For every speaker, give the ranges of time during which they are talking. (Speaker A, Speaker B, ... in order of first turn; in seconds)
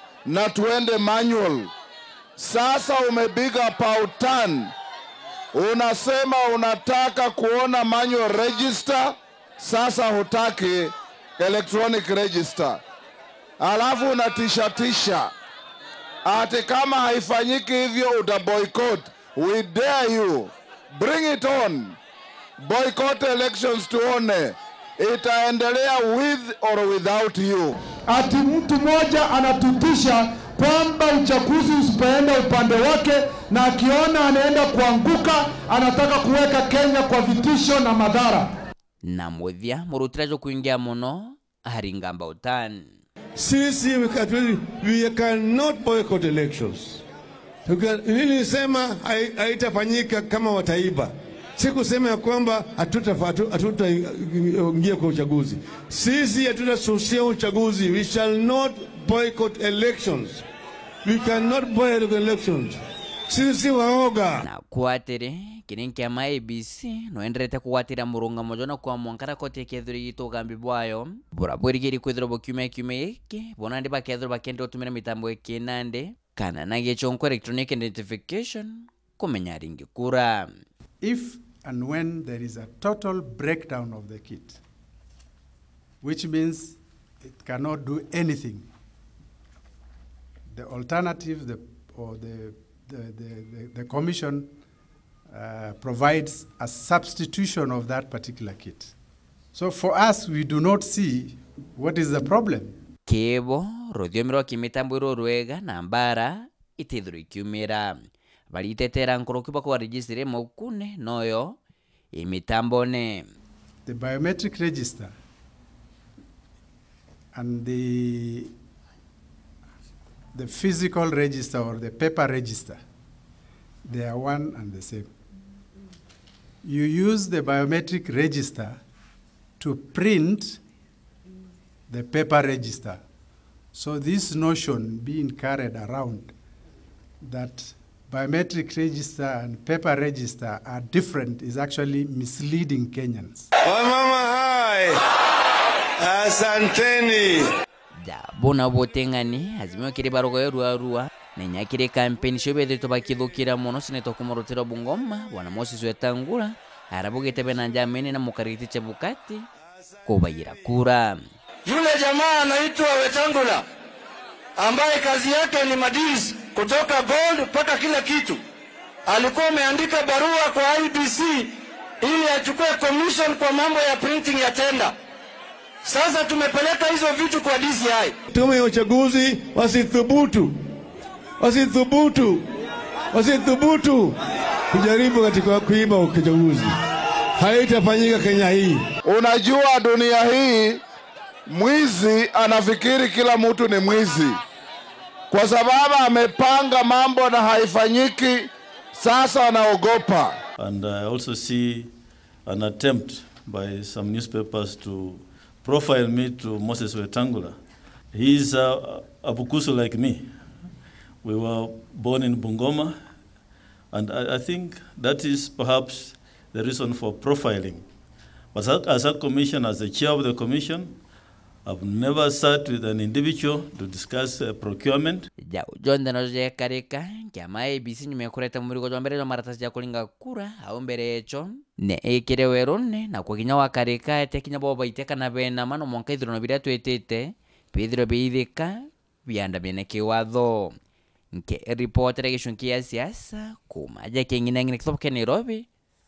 Speaker A: 0.3-1.6, 2.4-4.5, 5.6-12.7, 13.6-14.9, 16.3-21.9, 22.6-24.4, 25.0-27.6, 189.2-190.6, 191.7-194.2, 195.3-198.2, 199.1-200.1
Speaker B: 28.3-38.4
Speaker C: 39.0-42.9, 64.4-80.5, 103.1-108.0, 108.5-111.6, 112.1-113.2, 148.0-159.5, 160.1-161.2, 225.4-240.8, 241.3-245.7
Speaker D: 43.4-47.0, 47.7-60.4, 61.0-64.3, 143.7-145.0, 146.0-147.5, 178.3-180.6, 181.4-182.4, 183.1-184.2, 184.7-186.8, 187.4-188.8
Speaker E: 81.0-84.6, 86.0-88.7, 90.5-94.5, 95.3-98.9, 99.5-102.8, 113.9-115.1, 117.3-118.5, 120.3-122.8, 123.9-125.1, 126.6-128.8, 129.6-130.6, 131.9-133.0, 133.7-136.3, 137.2-143.5
Speaker F: 161.7-163.6, 164.6-168.4, 169.1-174.9, 175.8-178.2
Speaker G: 200.6-201.9, 202.5-207.6, 208.1-210.2, 211.2-213.0, 213.9-217.8, 218.5-220.9, 221.7-225.3